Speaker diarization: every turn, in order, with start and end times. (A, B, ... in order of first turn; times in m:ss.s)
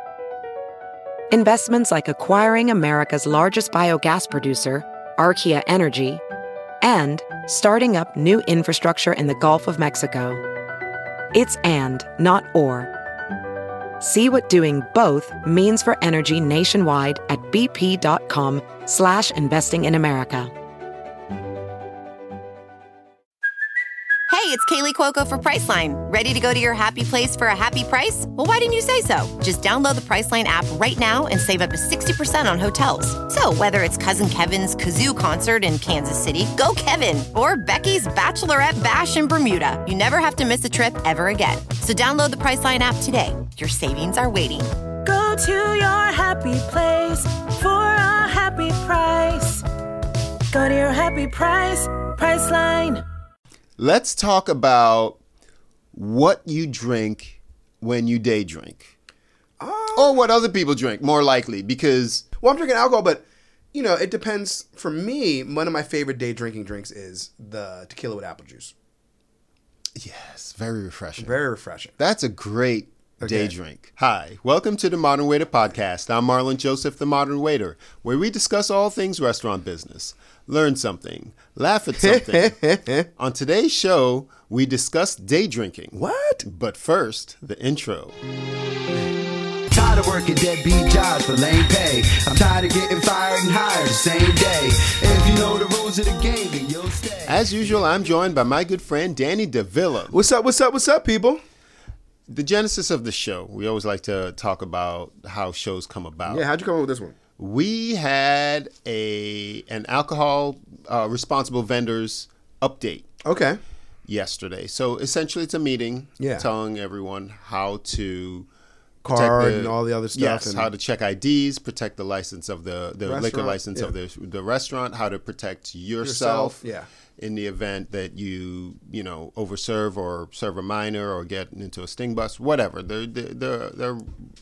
0:01.3-0:06.2 A
0:06.8-0:10.4 A
0:11.3-0:12.9 A
0:14.0-0:20.5 A
0:24.3-0:44.7 B
0:45.0-0:49.6 C
0:50.5-0:53.0 C
0:53.8-0:55.2 D
0:55.9-0:58.9 D
0:59.6-1:00.2 E
1:00.0-1:02.2 D
1:02.4-1:08.7 E
1:10.0-1:11.4 D
1:11.2-1:11.9 E
1:12.0-1:22.6 D
1:13.2-1:13.5 E
1:22.0-1:23.1 E
1:23.2-1:28.2 D
1:26.0-1:26.4 E
1:29.7-1:37.2 F
1:37.3-1:40.2 D
1:40.1-1:41.4 E
1:42.3-1:46.4 D
1:46.3-1:47.2 E
1:47.4-1:53.1 D
1:53.2-1:53.6 E
1:54.1-1:58.5 D
1:56.2-1:56.5 E
1:59.0-2:00.7 E
1:59.1-2:06.6 D
2:03.0-2:03.9 E
2:06.0-2:06.9 E
2:07.2-2:14.2 D